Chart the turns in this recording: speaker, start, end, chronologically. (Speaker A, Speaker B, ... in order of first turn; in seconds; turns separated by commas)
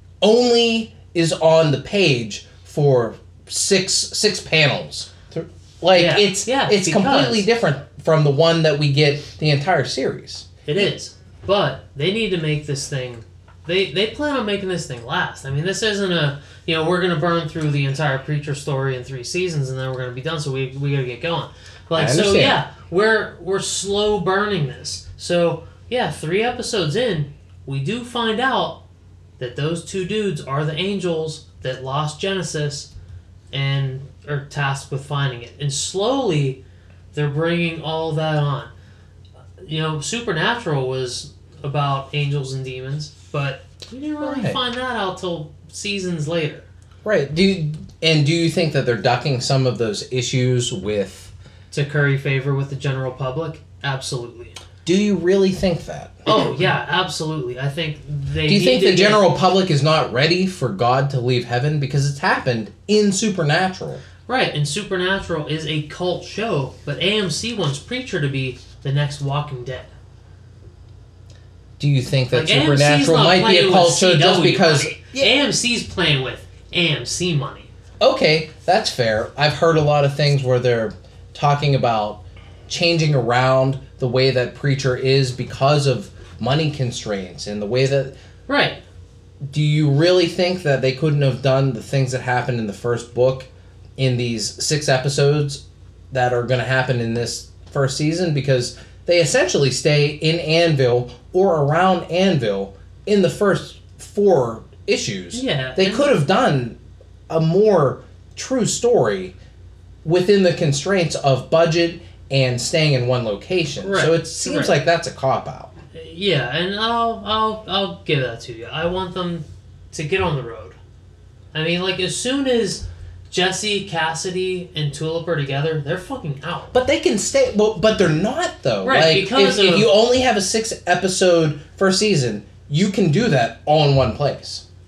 Speaker A: 0.2-10.5, Speaker B: 5.9-7.5, Speaker B: 10.7-28.8, Speaker A: 21.9-22.6, Speaker B: 29.4-32.9, Speaker B: 33.5-36.6, Speaker B: 37.1-38.7, Speaker B: 39.6-46.7, Speaker A: 44.2-44.6, Speaker A: 47.0-51.3, Speaker B: 51.7-54.6, Speaker A: 54.9-56.6, Speaker B: 56.3-59.3, Speaker A: 58.5-64.0, Speaker B: 64.3-69.9, Speaker A: 71.8-75.3, Speaker B: 72.3-77.7, Speaker A: 78.0-88.2, Speaker B: 88.5-88.8, Speaker A: 89.5-106.8, Speaker B: 105.3-106.1, Speaker A: 107.3-109.3, Speaker A: 110.0-115.7, Speaker B: 113.8-114.8, Speaker B: 115.9-120.8, Speaker B: 121.5-126.8, Speaker A: 126.7-134.6, Speaker B: 128.8-129.9